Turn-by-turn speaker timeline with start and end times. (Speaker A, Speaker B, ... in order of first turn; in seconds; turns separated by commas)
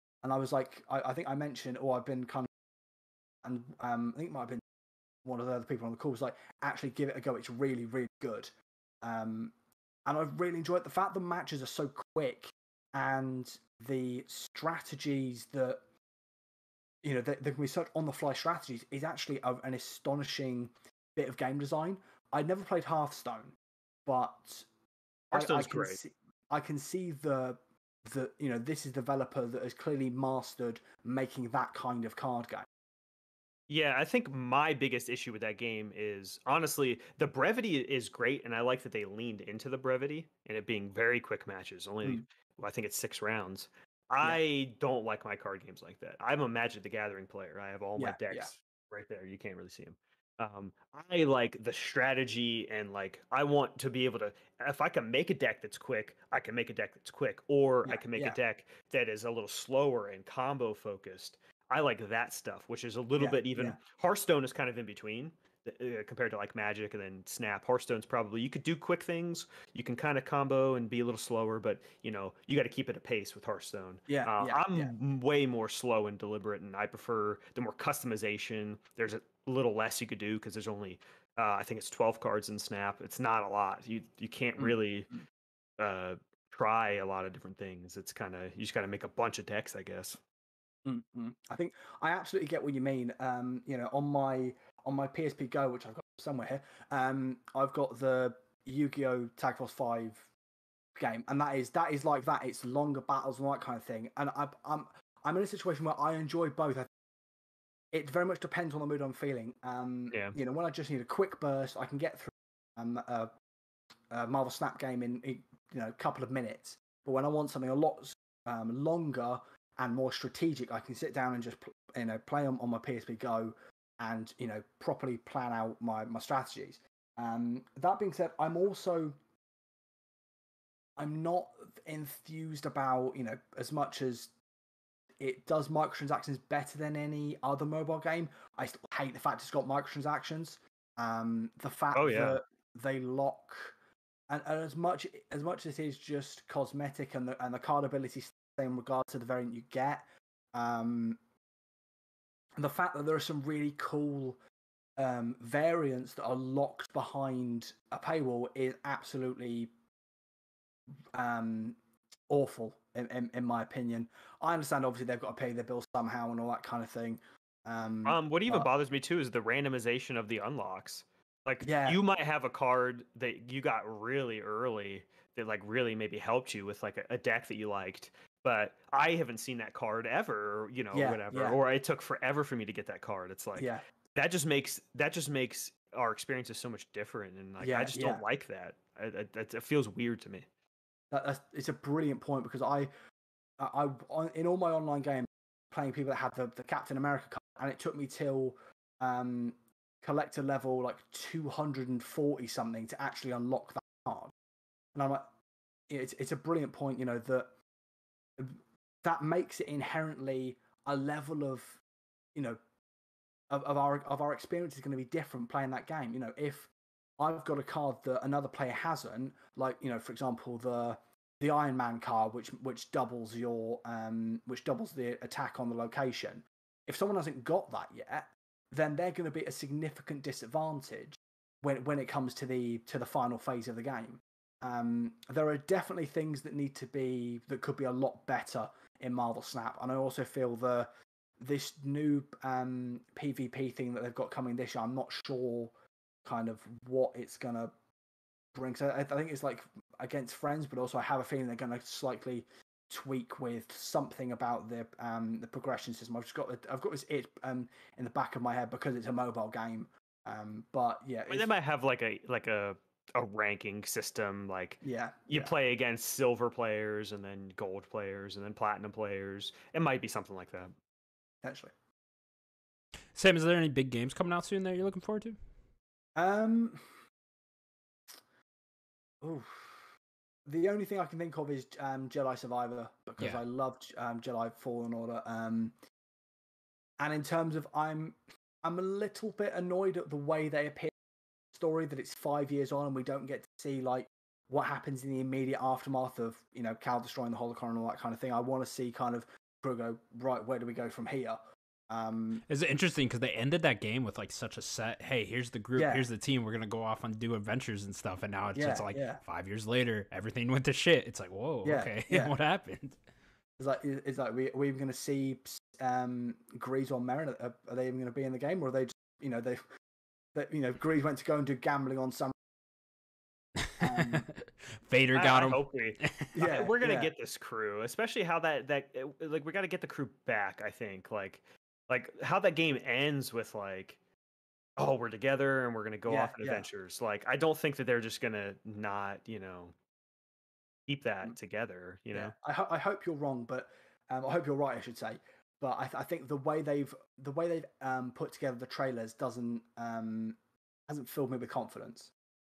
Speaker A: 0.2-2.5, Speaker A: 3.4-4.6, Speaker A: 5.2-8.5, Speaker A: 9.0-9.5, Speaker A: 10.1-15.8, Speaker A: 17.0-24.7, Speaker B: 25.3-26.0, Speaker A: 25.3-32.7, Speaker B: 33.7-85.1, Speaker A: 48.0-48.5, Speaker A: 57.8-58.4, Speaker A: 63.2-63.8, Speaker A: 74.1-74.9, Speaker A: 84.6-85.2, Speaker B: 85.8-90.2, Speaker A: 90.8-100.3, Speaker A: 100.9-106.9, Speaker A: 107.9-113.3, Speaker B: 110.1-110.3, Speaker A: 114.1-129.2, Speaker A: 131.0-134.3, Speaker A: 135.2-143.7, Speaker B: 141.9-142.4, Speaker A: 144.3-151.2, Speaker A: 152.6-154.4, Speaker A: 155.0-159.7, Speaker A: 161.1-161.8, Speaker A: 162.3-168.7, Speaker B: 168.1-190.4, Speaker A: 171.6-172.0, Speaker A: 180.9-181.6, Speaker A: 183.6-183.8, Speaker A: 187.6-188.2, Speaker A: 191.1-192.9, Speaker A: 193.6-204.3, Speaker A: 204.9-205.3, Speaker A: 205.9-207.5, Speaker A: 208.4-211.8, Speaker A: 213.5-240.9, Speaker A: 241.4-245.7, Speaker A: 246.2-247.7, Speaker A: 248.5-261.5, Speaker B: 261.3-270.7, Speaker A: 264.8-265.5, Speaker A: 271.4-271.7, Speaker C: 273.1-275.4, Speaker A: 276.1-276.8, Speaker A: 279.2-279.8, Speaker A: 280.4-285.7, Speaker A: 287.0-290.9, Speaker A: 291.5-302.4, Speaker C: 302.5-313.0, Speaker A: 305.8-306.1, Speaker A: 308.5-309.2, Speaker A: 311.6-312.3, Speaker A: 313.6-319.6, Speaker A: 320.3-322.3, Speaker C: 323.6-326.3, Speaker A: 323.8-324.3, Speaker B: 325.1-334.0, Speaker A: 326.3-327.1, Speaker B: 334.8-339.7, Speaker A: 336.1-336.7, Speaker B: 340.9-342.3, Speaker A: 342.1-350.4, Speaker A: 350.9-352.1